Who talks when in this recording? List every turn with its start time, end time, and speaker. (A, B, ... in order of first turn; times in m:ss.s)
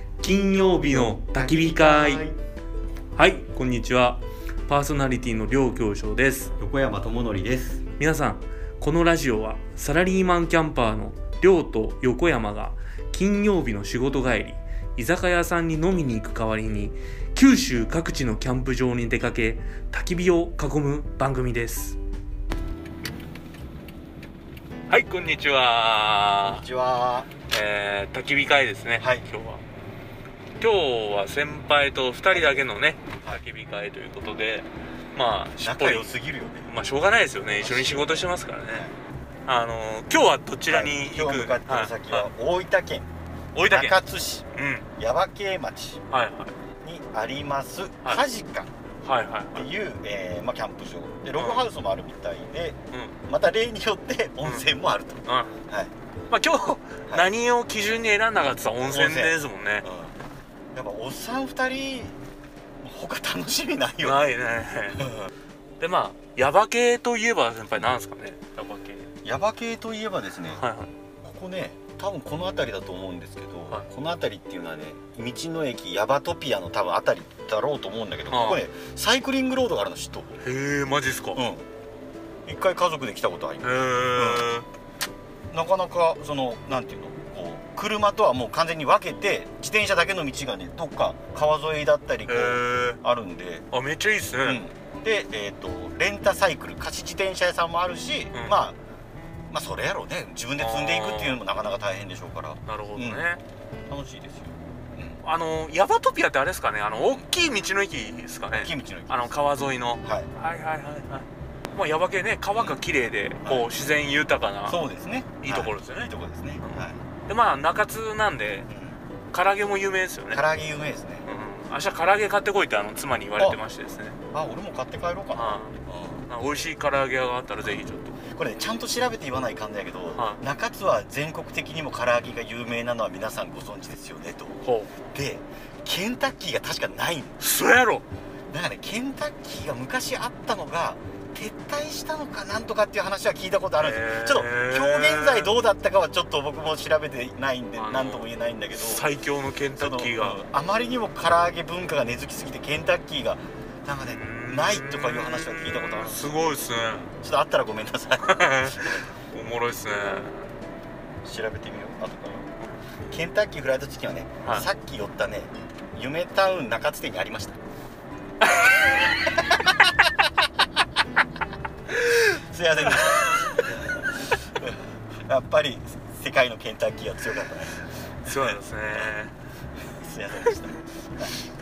0:00.2-0:02.3 A
0:01.2-0:02.4 B
0:03.2-0:06.5 A
0:06.6-0:07.8 B
0:08.0-0:22.0 A
0:24.9-0:26.6 A
0:26.4-0:27.3 B
0:27.5-0:29.6 A
0:29.0-0:29.3 B
0:30.6-0:36.1 A
0:32.3-0:32.6 B
0:35.6-0:36.7 B
0:36.7-0:38.9 A
0:37.6-0:39.0 B
0:39.5-0:42.3 A
0:40.7-0:43.1 B
0:43.6-0:44.0 A
0:43.6-0:46.0 B
0:44.5-0:44.9 A
0:46.1-0:46.5 A
0:46.8-0:48.7 B
0:49.0-0:49.7 A
0:49.6-0:55.9 B
0:51.4-0:51.7 A
0:55.3-0:55.6 A
0:56.3-0:59.9 A
0:58.8-1:00.2 B
1:00.7-1:02.2 B
1:02.8-1:04.3 B
1:04.0-1:05.1 A
1:05.0-1:05.3 B
1:05.8-1:09.1 A
1:09.2-1:10.6 B
1:10.5-1:10.9 A
1:11.2-1:20.4 B
1:18.3-1:18.6 A
1:20.4-1:21.4 A
1:21.4-1:21.7 B
1:22.5-1:24.6 B
1:23.6-1:24.7 A
1:25.5-1:33.7 B
1:32.3-1:33.0 A
1:33.7-1:34.6 A
1:34.4-1:38.8 B
1:39.5-1:43.3 B
1:40.6-1:41.4 A
1:42.7-1:43.4 A
1:43.9-1:45.2 B
1:45.2-1:54.8 A
1:48.5-1:49.4 B
1:50.0-1:50.3 B
1:52.6-1:52.8 B
1:53.4-1:53.7 B
1:54.7-1:57.0 B
1:55.4-1:56.1 A
1:56.6-1:58.7 A
1:58.7-1:59.0 B
1:59.3-2:00.4 A
2:00.3-2:01.3 B
2:01.3-2:04.2 A
2:03.4-2:03.6 B
2:04.3-2:06.3 B
2:05.3-2:05.8 A
2:06.3-2:08.2 A
2:07.6-2:17.4 B
2:14.6-2:14.9 A
2:17.4-2:18.0 A
2:18.5-2:29.1 B
2:23.8-2:25.5 A
2:27.8-2:30.4 A
2:29.8-2:39.0 B
2:34.0-2:37.1 A
2:38.2-2:40.5 A
2:41.2-2:42.5 B
2:43.1-2:47.6 B
2:48.4-2:49.1 A
2:49.1-2:49.7 B
2:51.9-2:53.7 A
2:52.4-2:59.2 B
2:58.2-2:59.3 A
2:59.9-3:01.3 B